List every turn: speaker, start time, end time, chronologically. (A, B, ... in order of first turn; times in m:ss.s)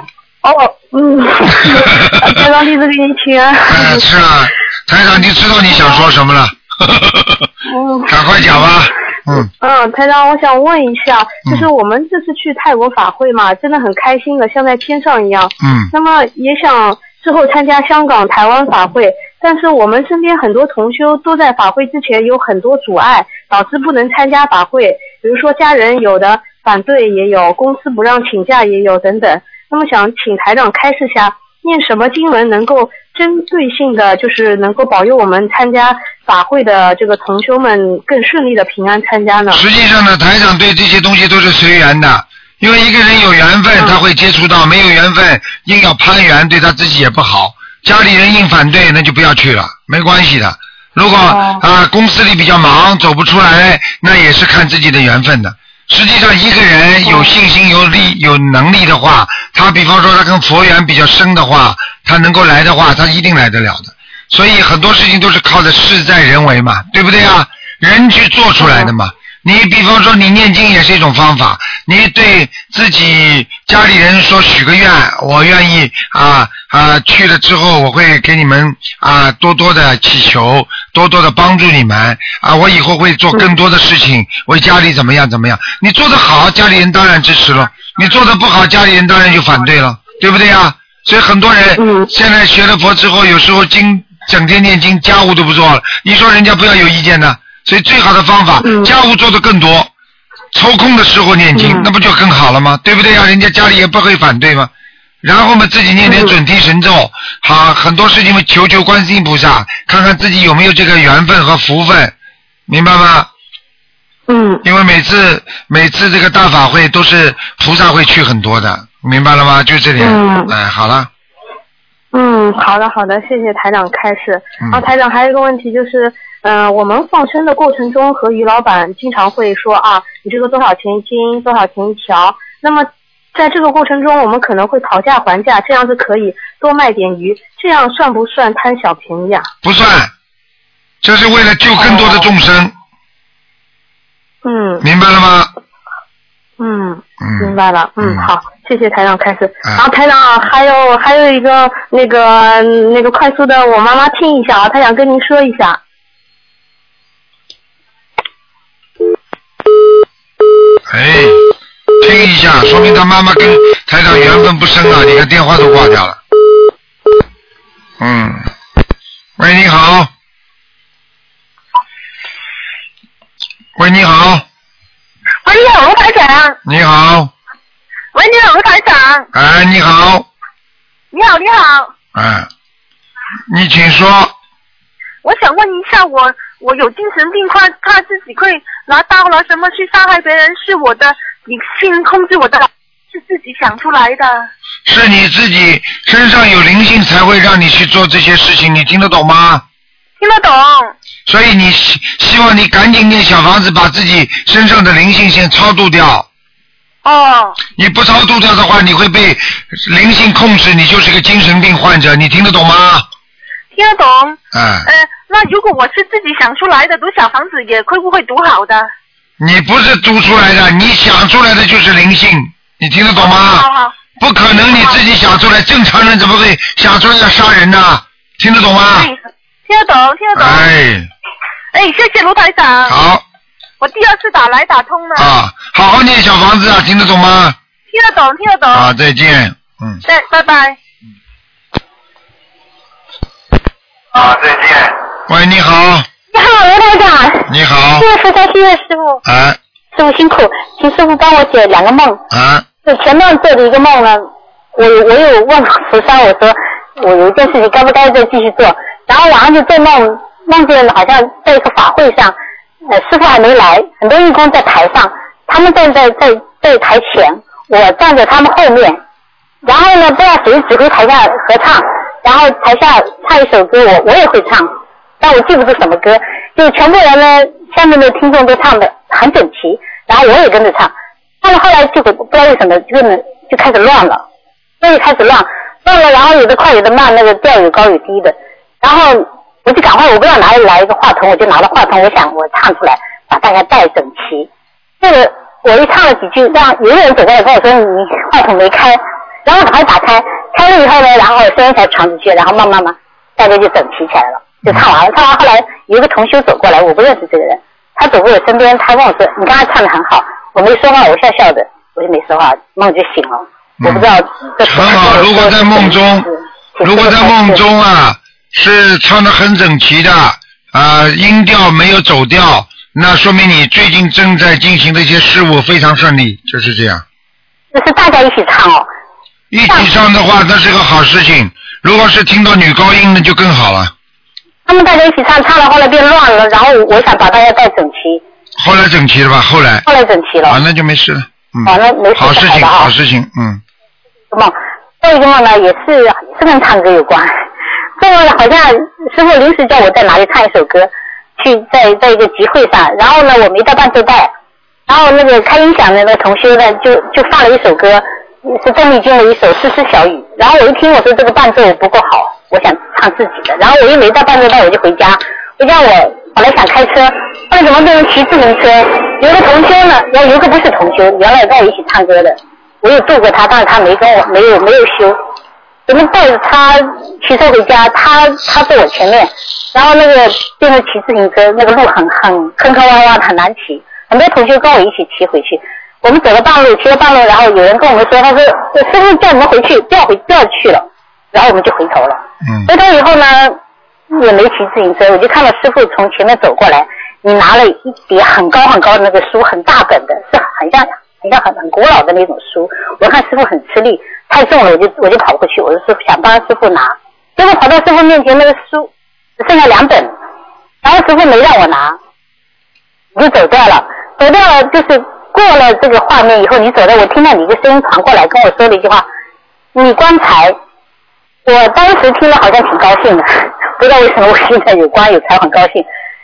0:00.4-0:04.0 A
0:01.9-0:02.2 B
0:03.7-0:07.5 B
0:07.6-0:08.1 A
0:08.1-0:09.5 B
0:09.6-0:39.6 A
0:15.6-0:15.9 B
0:39.5-1:39.9 B
0:51.3-0:51.6 A
1:08.6-1:08.9 A
1:31.8-1:32.1 A
1:38.6-1:38.9 A
1:40.5-1:44.7 B
1:41.5-1:41.9 A
1:45.2-1:52.1 B
1:46.0-1:46.3 A
1:52.7-1:53.3 B
1:54.3-1:54.6 A
1:54.6-2:01.1 B
2:00.0-2:00.5 A
2:02.1-2:19.5 A
2:19.6-2:20.1 B
2:21.0-2:22.7 B
2:21.8-2:22.2 A
2:24.4-2:24.8 A
2:24.8-2:25.5 B
2:26.6-2:35.8 A
2:27.2-2:28.2 B
2:40.9-2:41.4 B
2:42.0-2:46.2 B
2:48.0-2:48.5 B
2:49.4-2:50.1 B
2:53.8-2:54.4 B
2:55.4-2:56.6 C
2:56.6-2:57.3 B
2:58.1-2:59.3 C
2:59.3-3:00.2 B
3:01.1-3:01.9 C
3:02.1-3:02.5 B
3:03.5-3:04.3 B
3:05.2-3:14.5 C
3:14.8-3:19.6 B
3:20.2-3:20.9 C
3:21.3-3:26.3 B
3:27.0-3:27.6 C
3:27.8-3:33.0 B
3:33.7-3:38.9 C
3:34.5-3:34.9 B
3:39.4-3:43.7 B
3:43.1-3:43.9 C
3:44.2-3:49.1 B
3:44.6-3:45.0 C
3:48.9-3:50.7 C
3:50.3-3:51.1 B
3:51.7-3:52.9 C
3:52.9-3:53.2 B
3:53.8-3:55.3 C
3:55.2-3:57.6 B
3:57.9-3:58.9 C
3:58.7-4:00.0 B
4:00.0-4:00.8 C
4:04.2-4:06.1 B
4:06.3-4:09.2 D
4:07.5-4:08.1 B
4:09.2-4:09.6 B
4:09.9-4:12.2 D
4:12.3-4:12.6 B
4:12.8-4:29.0 D
4:29.6-4:44.2 D
4:44.8-4:54.5 D
4:55.0-5:17.6 D
5:13.8-5:14.1 B
5:14.6-5:16.3 B
5:16.8-5:27.0 B
5:27.7-5:28.9 D
5:29.5-5:33.9 B
5:34.6-5:38.2 D
5:38.6-5:39.8 B
5:39.8-5:40.6 D
5:40.4-5:43.6 B
5:41.6-5:42.9 D
5:44.3-5:47.3 D
5:48.0-5:54.3 D
5:54.9-6:15.2 D
6:15.9-6:33.6 D
6:32.4-6:32.7 B
6:34.1-6:50.1 D
6:50.8-6:52.0 D
6:53.1-6:59.1 D
6:59.7-7:00.6 D
7:01.4-7:05.8 D